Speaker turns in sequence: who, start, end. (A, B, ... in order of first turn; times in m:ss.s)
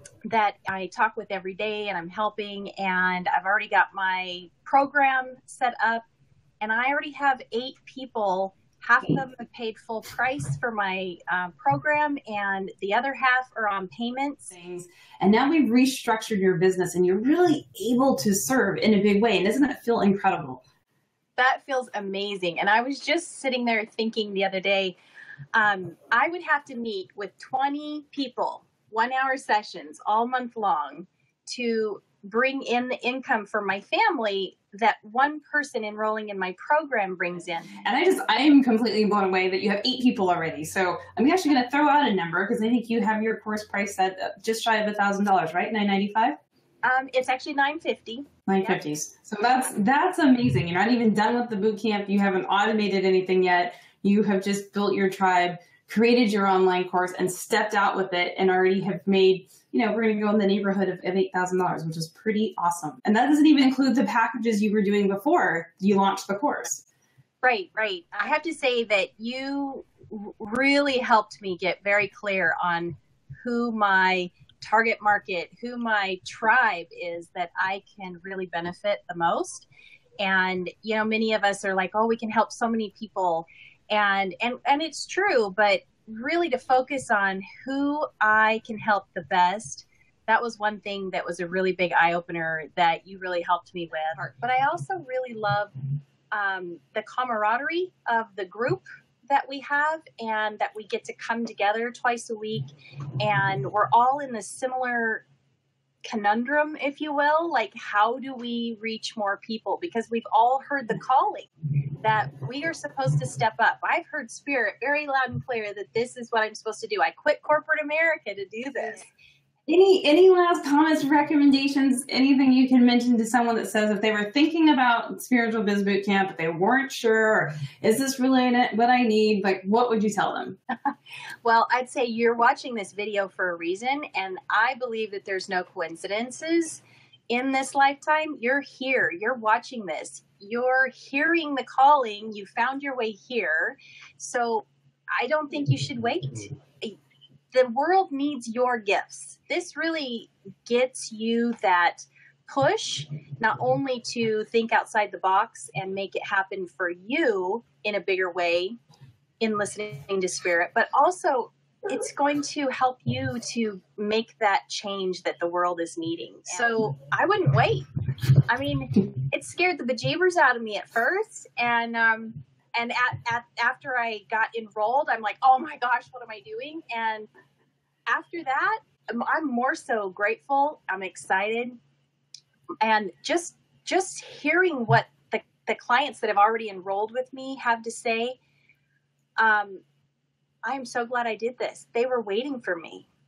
0:00.3-0:06.0 A
0:06.6-0:14.5 A
0:14.5-0:20.6 B
0:21.4-0:25.0 A
0:25.5-0:37.7 A
0:37.8-0:46.4 B
0:46.8-0:48.9 A
0:48.5-1:06.8 B
1:07.4-1:19.7 A
1:20.2-1:35.7 A
1:36.3-1:42.7 A
1:43.2-1:45.2 A
1:46.0-1:51.5 A
1:52.0-1:59.1 A
1:59.7-2:10.6 B
2:11.4-2:27.0 A
2:27.5-2:38.8 A
2:39.4-2:47.8 A
2:48.5-2:57.3 A
2:58.1-3:01.8 A
3:02.8-3:08.4 A
3:09.4-3:09.8 A
3:10.6-3:13.1 A